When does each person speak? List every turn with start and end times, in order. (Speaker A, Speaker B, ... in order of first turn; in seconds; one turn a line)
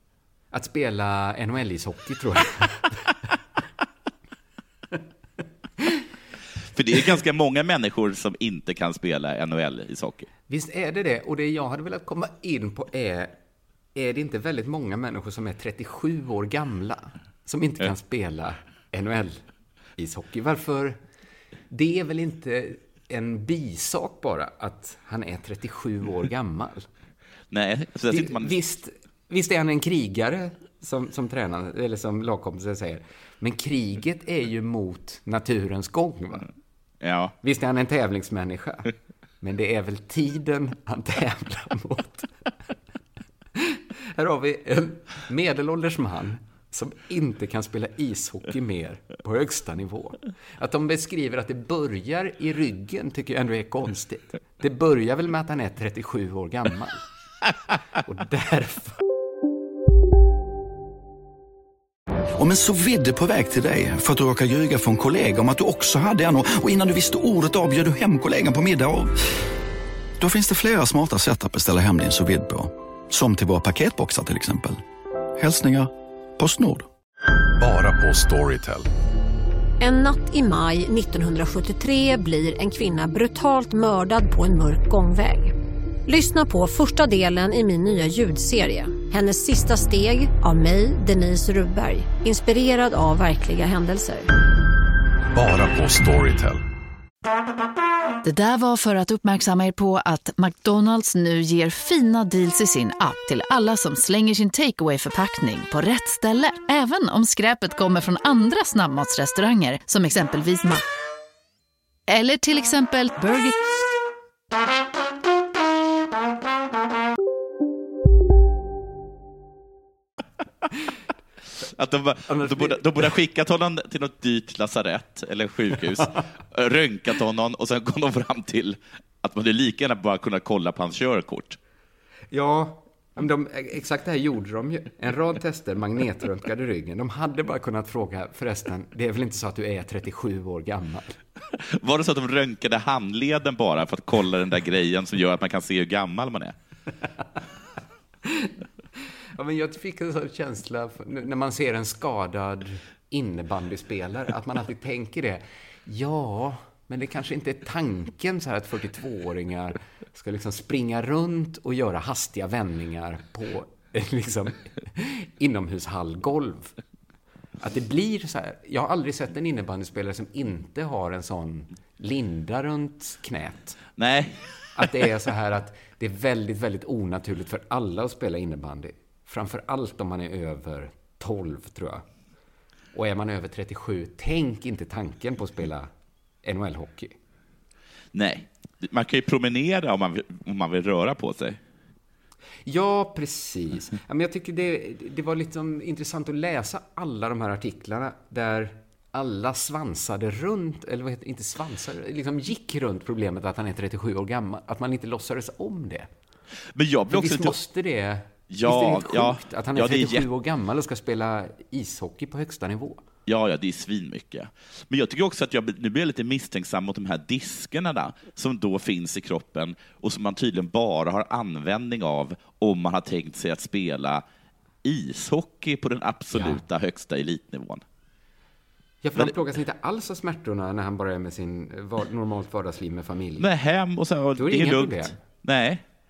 Speaker A: 0.5-3.0
Speaker B: 6.7-10.3
Speaker A: 10.5-13.4
Speaker A: 13.9-19.4
Speaker A: 20.0-21.0
Speaker A: 21.7-26.9
Speaker B: 27.5-28.6
Speaker A: 28.1-36.5
Speaker B: 37.0-37.4
Speaker A: 37.4-42.3
Speaker A: 43.6-57.0
Speaker A: 58.0-59.0
Speaker C: 62.4-69.2
Speaker C: 70.2-74.8
Speaker C: 75.4-76.9
Speaker D: 77.6-78.9
Speaker E: 79.8-85.5
Speaker E: 86.1-94.3
Speaker D: 95.3-96.6
Speaker F: 98.2-110.8
Speaker F: 112.1-113.5
Speaker B: 121.8-131.6
Speaker A: 122.3-122.8
Speaker A: 132.3-141.2
Speaker B: 141.7-146.6
Speaker A: 148.2-148.5
Speaker A: 149.3-166.8
Speaker A: 167.6-173.8
Speaker B: 174.0-174.9
Speaker A: 174.8-182.0
Speaker A: 182.9-185.9
Speaker A: 186.4-187.2
Speaker B: 188.1-191.6
Speaker A: 192.7-206.1
Speaker B: 206.8-207.6
Speaker A: 207.1-213.0
Speaker B: 208.5-210.2
Speaker B: 213.3-224.2
Speaker B: 224.8-227.8
Speaker A: 226.3-226.6
Speaker A: 229.0-233.5
Speaker B: 233.4-235.8
Speaker A: 234.4-235.1